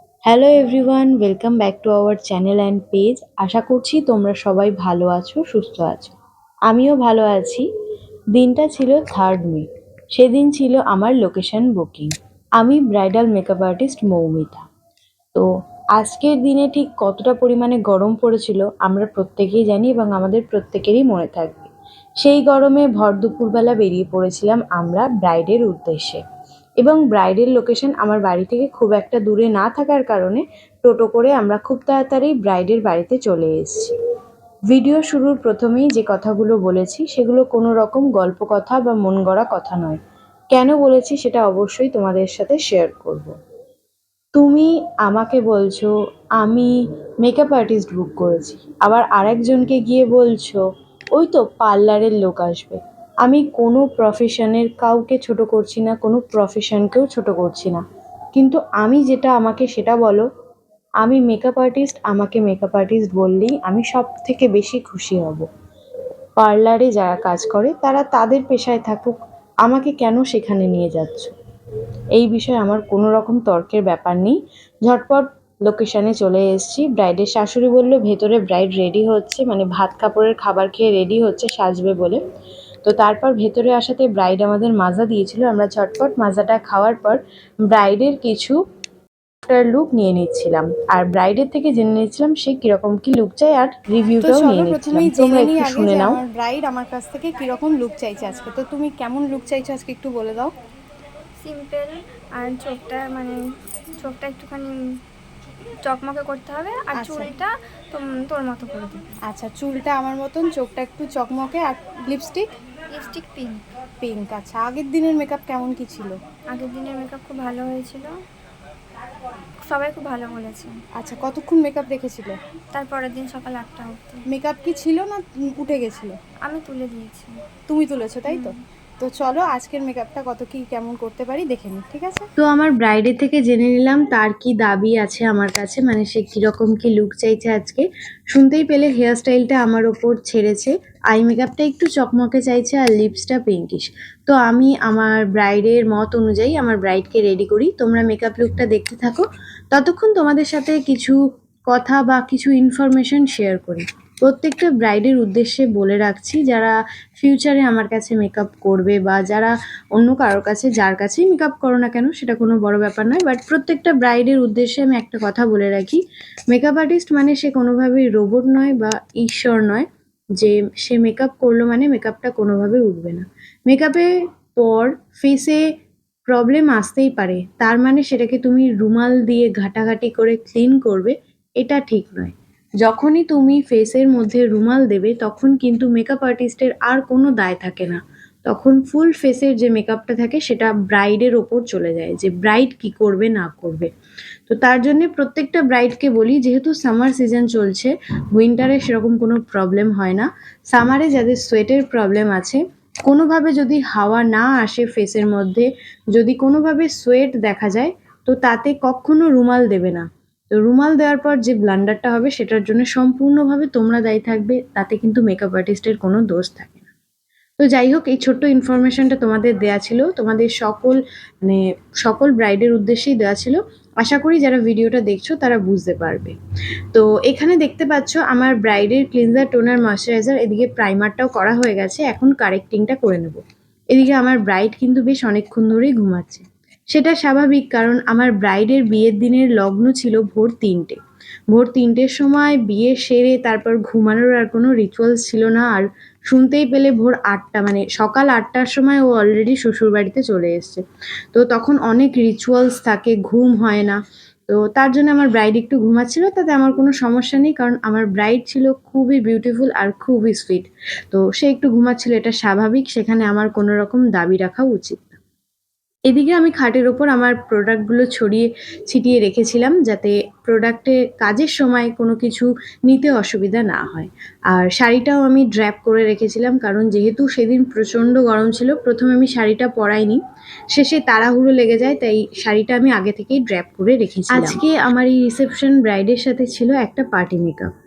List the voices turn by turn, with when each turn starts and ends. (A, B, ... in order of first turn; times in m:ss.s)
0:00.3-0:06.2 A
0:06.7-0:07.7 A
0:08.3-0:14.7 A
0:15.3-0:26.2 A
0:26.8-0:33.9 A
0:34.7-0:40.0 A
0:40.5-0:43.3 A
0:44.4-0:50.6 A
0:51.2-0:57.8 A
0:58.4-1:00.3 A
1:01.0-1:05.5 A
1:06.4-1:11.3 A
1:12.2-1:22.2 A
1:22.8-1:27.2 A
1:27.7-1:28.6 A
1:29.4-1:36.2 A
1:34.2-1:40.5 B
1:41.4-1:43.4 C
1:44.0-1:44.8 C
1:45.8-1:49.2 C
1:46.9-1:47.3 B
1:49.2-1:52.5 B
1:52.9-1:53.7 C
1:54.0-1:56.2 B
1:56.5-1:58.2 C
1:59.6-2:00.8 C
2:01.0-2:02.4 B
2:02.7-2:04.2 C
2:04.3-2:06.2 B
2:06.4-2:07.4 C
2:07.7-2:12.3 B
2:08.3-2:08.6 C
2:12.4-2:31.2 A
2:31.7-2:49.9 A
2:50.4-2:55.6 A
2:56.3-3:13.9 A
3:14.5-3:36.9 A
3:37.6-3:46.4 A
3:46.9-3:53.4 A
3:53.9-4:01.0 A
4:01.5-4:25.2 A
4:26.1-4:40.2 A
4:40.7-4:47.7 A